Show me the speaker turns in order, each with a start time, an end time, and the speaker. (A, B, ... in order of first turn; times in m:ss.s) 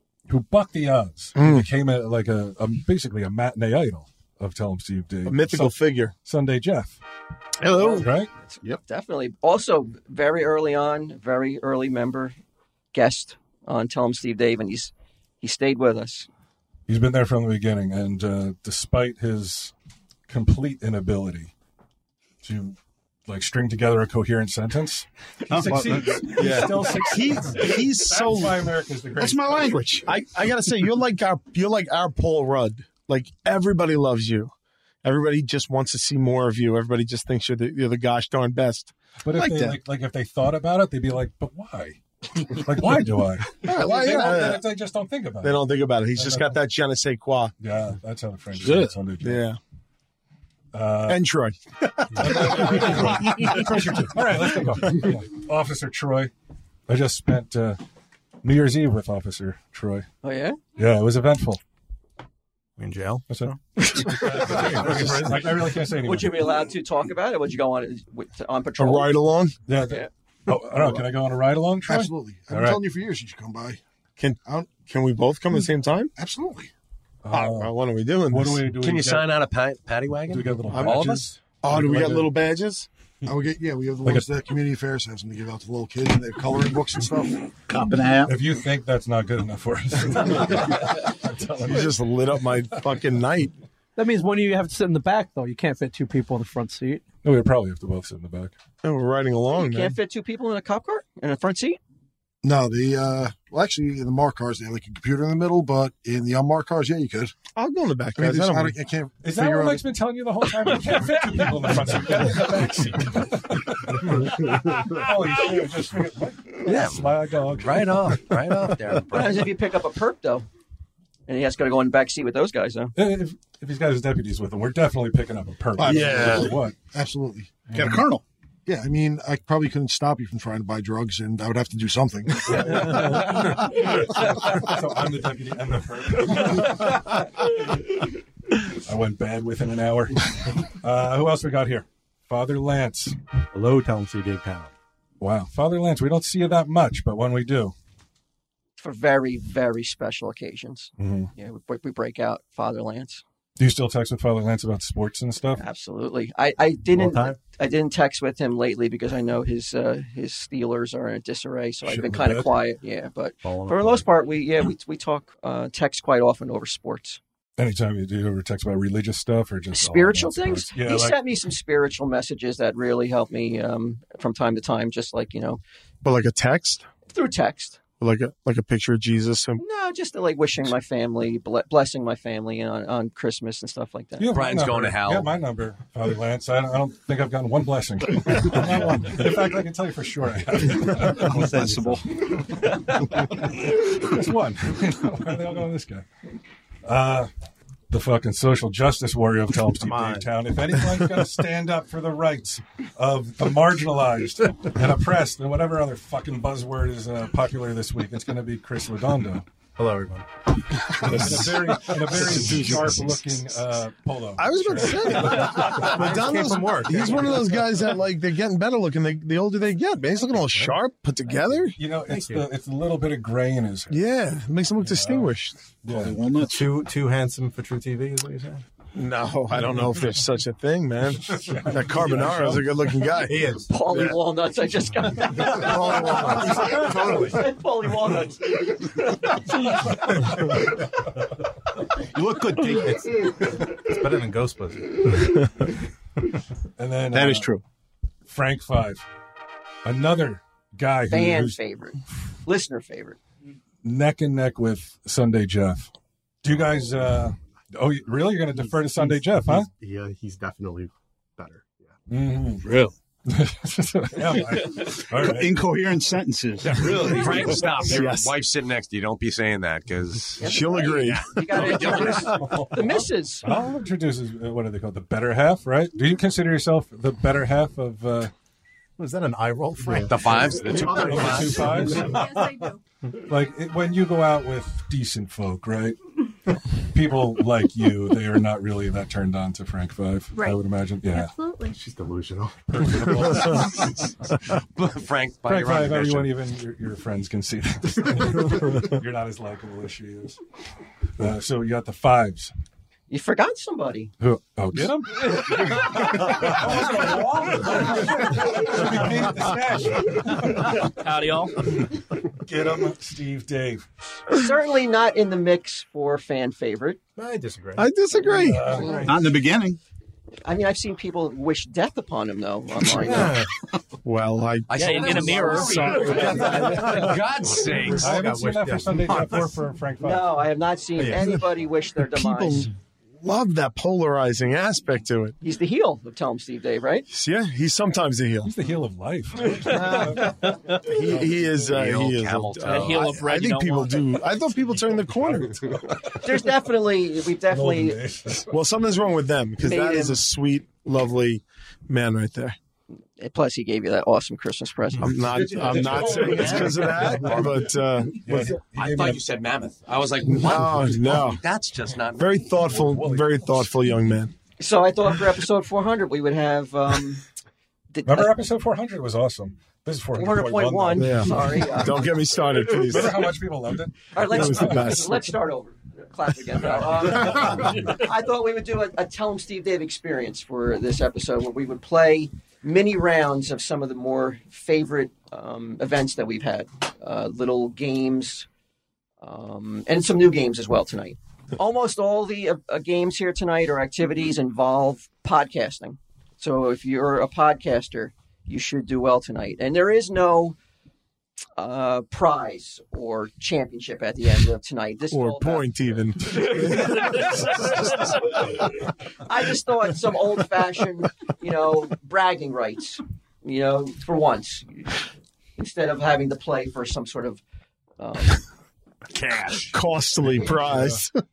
0:00.3-0:07.0 A
0:01.4-0:01.6 B
0:05.2-0:06.1 B
0:07.7-0:12.3 C
0:08.0-0:08.3 A
0:12.9-0:16.3 C
0:16.9-0:19.7 A
0:20.3-0:21.5 A
0:22.4-0:22.8 A
0:23.3-0:29.8 A
0:25.5-0:26.9 D
0:26.4-0:26.7 E
0:27.0-0:28.6 B
0:27.7-0:28.4 D
0:29.2-0:30.1 D
0:30.0-0:34.5 B
0:35.0-0:39.8 B
0:39.2-0:46.6 A
0:43.6-0:44.6 B
0:45.4-0:47.5 B
0:47.6-0:49.4 A
0:49.2-0:49.6 B
0:50.7-0:51.3 A
0:51.0-0:53.7 B
0:52.1-0:56.3 A
0:56.9-0:57.8 A
0:58.4-1:00.0 A
1:00.2-1:00.6 C
1:00.8-1:01.6 A
1:02.8-1:05.7 E
1:03.3-1:06.6 A
1:06.0-1:09.1 C
1:08.8-1:09.5 B
1:09.7-1:12.8 A
1:11.8-1:13.8 F
1:14.2-1:16.1 B
1:16.2-1:16.7 F
1:17.2-1:17.7 A
1:17.3-1:18.6 B
1:18.2-1:19.4 A
1:18.8-1:21.4 G
1:20.3-1:22.3 A
1:20.7-1:21.0 B
1:21.6-1:22.9 B
1:23.2-1:27.5 F
1:27.8-1:28.3 D
1:28.2-1:33.0 A
1:31.6-1:33.5 B
1:34.0-1:37.0 H
1:37.2-1:38.5 A
1:38.8-1:40.0 B
1:39.5-1:41.8 C
1:42.4-1:47.3 F
1:47.6-1:48.8 B
1:48.2-1:49.8 F
1:49.2-1:58.1 A
1:56.6-1:59.5 G
1:59.1-2:00.4 C
2:01.3-2:02.9 C
2:02.9-2:06.7 A
2:05.8-2:06.6 B
2:05.8-2:07.6 F
2:07.7-2:08.0 A
2:07.7-2:08.2 D
2:08.7-2:13.2 F
2:12.4-2:17.6 A
2:18.8-2:23.2 A
2:23.5-2:24.7 I
2:25.2-2:27.7 A
2:28.8-2:33.2 C
2:31.0-2:31.3 A
2:33.6-2:35.6 A
2:35.6-2:47.2 C
2:36.9-2:37.4 I
2:41.8-2:42.6 A
2:43.4-2:44.1 I
2:47.6-2:51.2 A
2:49.7-2:55.6 C
2:56.0-2:56.8 B
2:57.1-2:57.8 C
2:58.0-2:59.6 B
2:59.6-3:04.3 C
3:04.2-3:16.0 A
3:04.3-3:05.3 G
3:11.3-3:12.0 I
3:16.8-3:17.3 A
3:17.9-3:29.4 A
3:19.8-3:20.2 E
3:29.8-3:30.2 E
3:30.9-3:36.0 A
3:31.0-3:31.4 B
3:32.1-3:33.4 B
3:34.4-3:41.8 B
3:35.4-3:37.6 E
3:41.7-3:44.0 A
3:42.1-3:42.4 E
3:43.9-3:45.5 B
3:44.8-3:45.3 A
3:45.8-3:46.2 A
3:45.9-3:46.7 D
3:46.4-3:48.6 E
3:48.9-3:54.1 B
3:51.2-3:52.7 A
3:53.2-3:54.1 E
3:53.7-3:59.9 C
3:55.4-3:56.8 B
3:56.0-3:57.5 E
4:00.0-4:00.5 A
4:02.2-4:02.9 D
4:02.5-4:05.1 E
4:06.8-4:07.5 A
4:08.2-4:09.0 A
4:09.8-4:11.6 A
4:11.1-4:13.2 C
4:13.8-4:15.9 A
4:16.4-4:19.7 A
4:18.8-4:21.8 E
4:22.1-4:22.7 A
4:22.6-4:22.9 D
4:23.3-4:25.6 A
4:25.2-4:27.5 D
4:26.7-4:27.6 E
4:26.9-4:32.2 G
4:26.9-4:27.5 A
4:27.8-4:28.4 B
4:30.4-4:33.4 C
4:30.4-4:31.3 B
4:31.5-4:38.3 A
4:39.0-4:42.4 E
4:40.0-4:41.8 G
4:40.7-4:42.4 A
4:42.0-4:42.8 J
4:43.2-4:46.0 A
4:46.9-4:51.3 A
4:50.3-4:51.8 J
4:51.7-4:53.2 E
4:52.7-4:54.1 A
4:54.5-4:56.3 G
4:55.4-5:00.4 A
5:01.2-5:02.5 A
5:03.1-5:04.1 C
5:04.2-5:10.9 A
5:11.0-5:11.7 K
5:12.3-5:13.8 A
5:14.3-5:17.0 C
5:17.2-5:17.9 E
5:17.8-5:18.8 B
5:18.3-5:19.2 A
5:18.9-5:19.8 D
5:20.4-5:23.3 C
5:22.9-5:23.5 E
5:24.0-5:26.1 B
5:24.7-5:28.2 G
5:24.7-5:26.1 K
5:25.4-5:29.6 E
5:26.0-5:30.4 A
5:30.0-5:32.7 C
5:31.0-5:31.3 E
5:32.0-5:35.4 B
5:35.4-5:37.1 C
5:37.1-5:38.5 B
5:38.4-5:41.7 A
5:39.6-5:45.7 B
5:41.7-5:43.2 G
5:42.6-5:44.1 K
5:45.1-5:46.4 A
5:46.2-5:48.0 C
5:47.5-5:48.5 A
5:48.5-5:52.6 B
5:49.6-5:50.2 C
5:53.2-5:55.2 C
5:55.0-5:58.5 B
5:55.1-5:57.6 A
5:56.0-5:57.6 G
5:58.2-5:59.2 A
5:58.3-6:02.6 G
6:00.3-6:01.4 B
6:02.2-6:04.3 B
6:02.7-6:03.6 A
6:04.6-6:07.2 C
6:07.9-6:08.4 C
6:08.0-6:11.5 A
6:10.1-6:12.1 C
6:11.0-6:13.3 B
6:12.7-6:15.0 A
6:14.1-6:28.5 C
6:14.2-6:15.3 B
6:16.6-6:17.8 A
6:29.2-6:40.6 C
6:41.6-6:45.6 C
6:45.1-6:47.3 B
6:49.2-6:55.0 C
6:55.6-6:57.4 C
6:58.0-6:58.4 C
6:59.7-7:01.2 B
7:00.4-7:01.0 A